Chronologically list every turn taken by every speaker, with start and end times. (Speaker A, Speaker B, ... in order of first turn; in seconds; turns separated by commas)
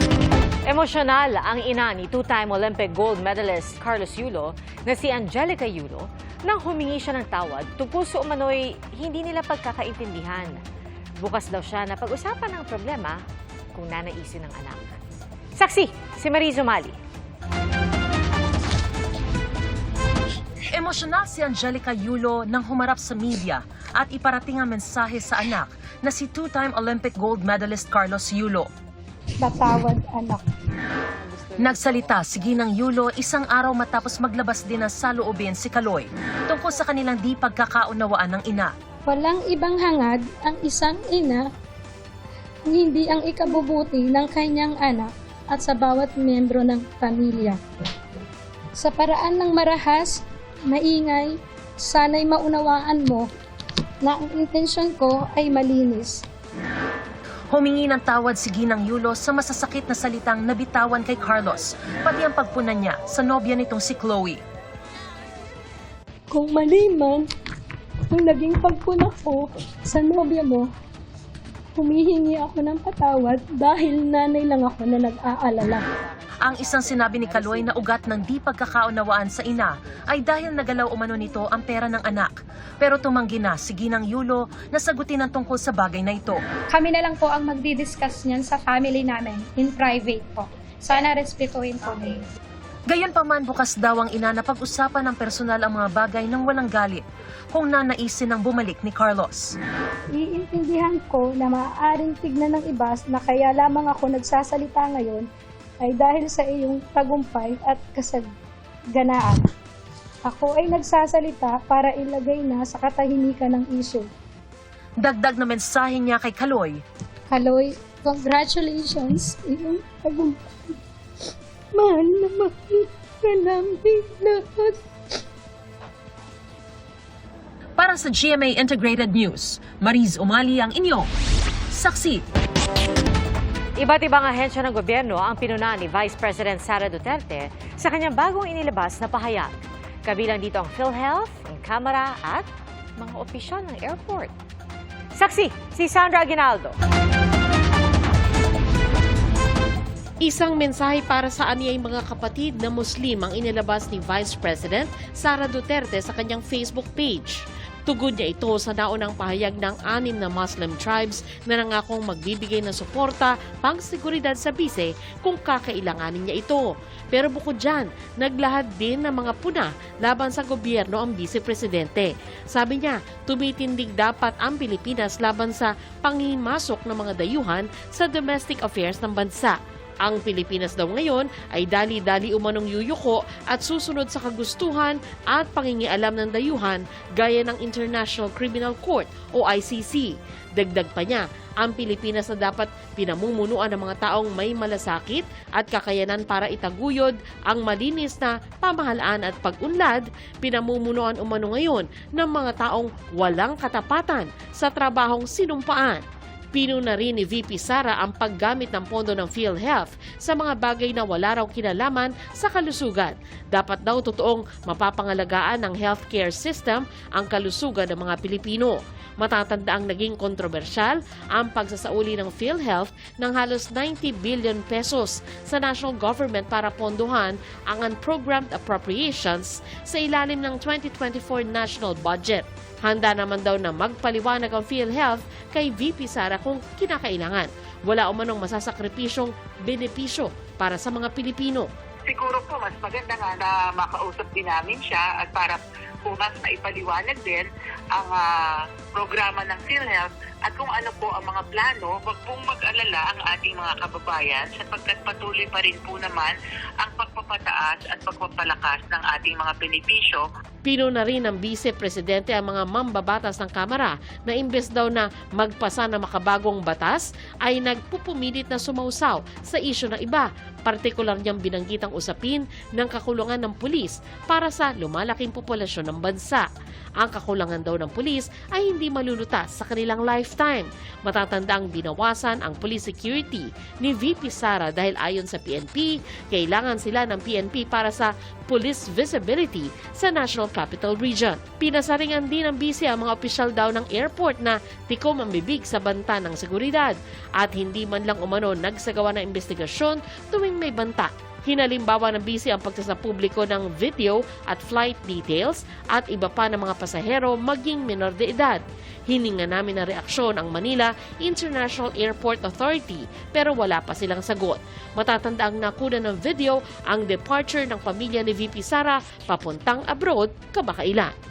Speaker A: 0.7-10.6, Speaker A: 11.2-13.2, Speaker A: 13.7-15.0, Speaker A: 15.6-17.0, Speaker B: 20.7-28.7, Speaker C: 29.4-30.4, Speaker B: 31.6-38.7, Speaker C: 39.1-41.5, Speaker C: 42.7-47.6, Speaker C: 48.8-53.3, Speaker C: 54.0-56.2, Speaker B: 57.5-64.4, Speaker C: 66.3-67.3, Speaker C: 68.1-70.7, Speaker C: 71.8-75.8, Speaker B: 76.4-86.4, Speaker C: 86.7-92.2, Speaker B: 92.9-99.5, Speaker C: 100.2-105.3, Speaker C: 105.8-108.3, Speaker C: 108.9-109.4, Speaker C: 110.3-114.1, Speaker B: 115.0-116.8, Speaker C: 117.3-120.4, Speaker C: 121.7-124.8, Speaker B: 127.8-131.1, Speaker B: 131.7-132.2, Speaker A: 133.8-144.3, Speaker A: 145.1-146.8, Speaker D: 150.2-206.0, Speaker D: 206.5-241.7, Speaker E: 242.1-248.3, Speaker E: 248.9-260.2, Speaker D: 260.6-276.4, Speaker D: 277.0-321.1